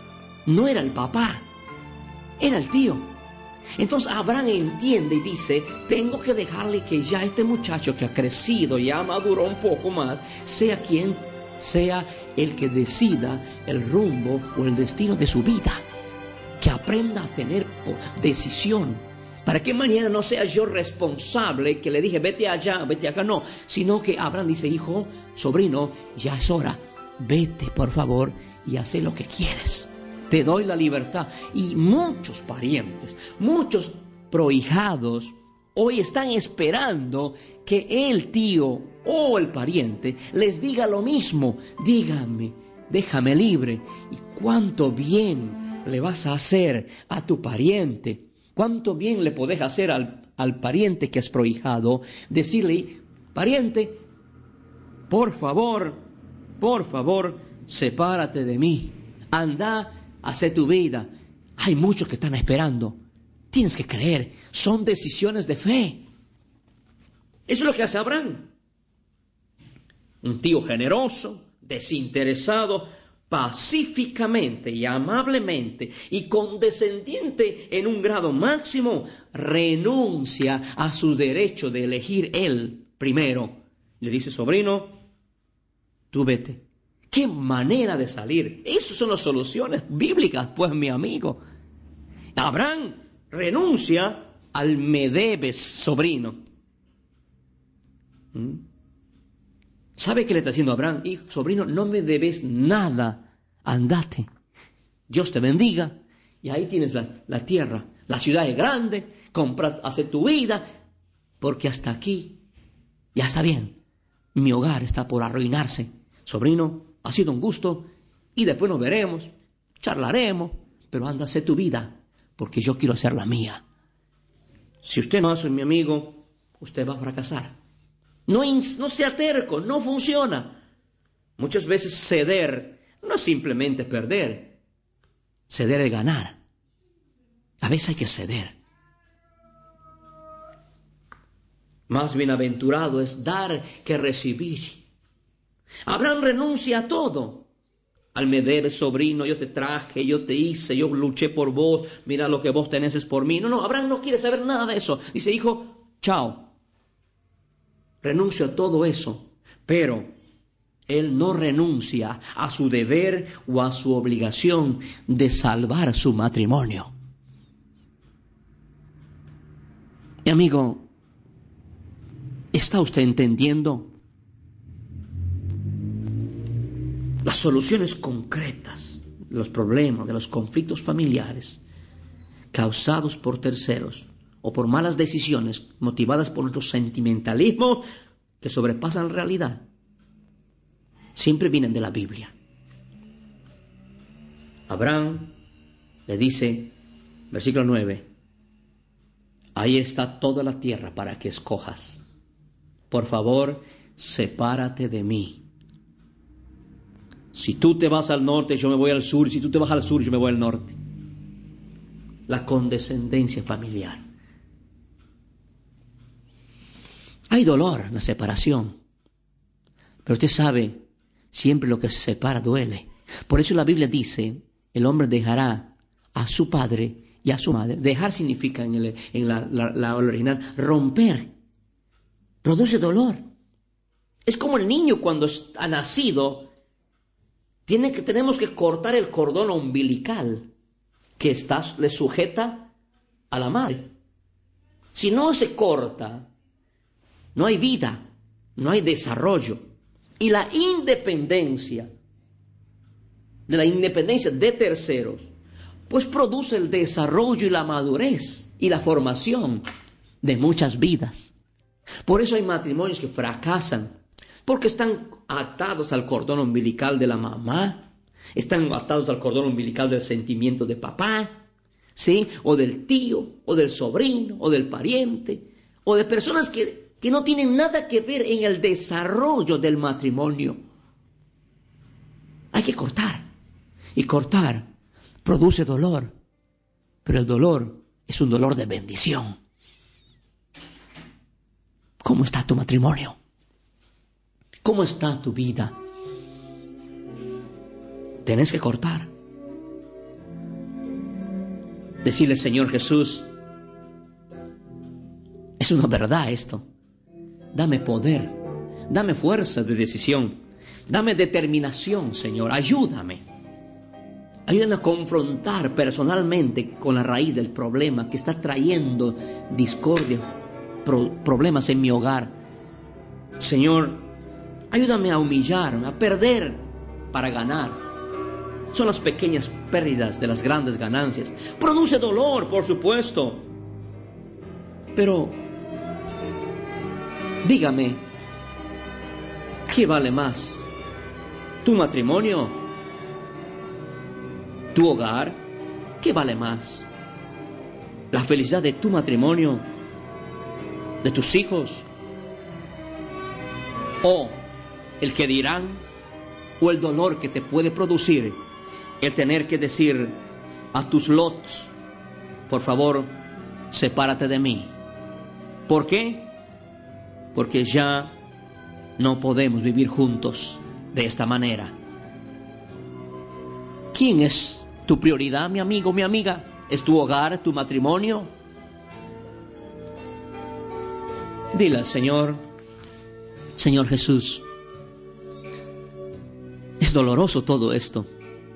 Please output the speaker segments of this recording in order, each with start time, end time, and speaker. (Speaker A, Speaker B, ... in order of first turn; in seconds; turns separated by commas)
Speaker A: 0.5-1.4, Speaker A: 2.4-3.1, Speaker A: 3.8-15.8, Speaker A: 16.6-54.0, Speaker A: 55.1-56.0, Speaker A: 56.6-66.0, Speaker A: 67.5-68.5, Speaker A: 70.2-85.0, Speaker A: 86.1-91.4, Speaker A: 92.3-96.4, Speaker A: 98.3-98.7, Speaker A: 100.0-104.3, Speaker A: 105.1-110.6, Speaker A: 111.4-112.4, Speaker A: 113.1-113.8, Speaker A: 114.3-123.6, Speaker A: 124.8-127.5, Speaker A: 128.3-130.6, Speaker A: 131.4-134.6, Speaker A: 135.5-136.4, Speaker A: 137.6-138.6, Speaker A: 141.9-144.8, Speaker A: 145.8-147.5, Speaker A: 148.1-156.5, Speaker A: 158.0-160.1, Speaker A: 160.9-166.9, Speaker A: 170.2-170.9, Speaker A: 172.5-173.9, Speaker A: 177.2-181.6, Speaker A: 182.5-187.8, Speaker A: 188.4-189.7, Speaker A: 191.1-192.3, Speaker A: 194.7-195.3, Speaker A: 196.1-196.7, Speaker A: 197.3-198.1, Speaker A: 199.5-202.0, Speaker A: 202.9-205.4, Speaker A: 207.3-210.8, Speaker A: 212.3-214.0, Speaker A: 217.3-218.8, Speaker A: 220.0-231.3, Speaker A: 232.4-233.2, Speaker A: 234.2-236.5, Speaker A: 237.7-240.5, Speaker A: 241.2-242.7, Speaker A: 243.3-243.9, Speaker A: 244.9-246.3, Speaker A: 247.3-249.7, Speaker A: 250.2-251.9, Speaker A: 253.5-255.3, Speaker A: 255.9-259.6, Speaker A: 260.2-261.3, Speaker A: 262.0-263.9, Speaker A: 264.4-271.4, Speaker A: 271.9-280.6, Speaker A: 282.5-283.3, Speaker A: 283.9-284.7, Speaker A: 285.2-286.1, Speaker A: 287.0-289.4, Speaker A: 292.0-293.2, Speaker A: 294.6-295.7, Speaker A: 298.2-299.1, Speaker A: 302.0-303.3, Speaker A: 305.6-306.6, Speaker A: 307.5-313.2, Speaker A: 314.5-320.3, Speaker A: 320.8-322.3, Speaker A: 323.4-324.1, Speaker A: 324.7-327.8, Speaker A: 328.7-333.5, Speaker A: 334.9-335.4, Speaker A: 337.4-338.0, Speaker A: 339.7-340.7, Speaker A: 341.6-342.6, Speaker A: 344.7-345.4, Speaker A: 346.0-346.9, Speaker A: 348.1-349.7, Speaker A: 351.0-351.9, Speaker A: 354.0-354.4, Speaker A: 355.0-355.8, Speaker A: 356.6-358.4, Speaker A: 359.0-360.2, Speaker A: 360.7-361.7, Speaker A: 362.5-363.1, Speaker A: 363.7-364.8, Speaker A: 365.7-366.3, Speaker A: 367.3-368.2, Speaker A: 369.0-371.8, Speaker A: 373.9-378.3, Speaker A: 381.5-382.4, Speaker A: 383.6-384.4, Speaker A: 386.8-388.1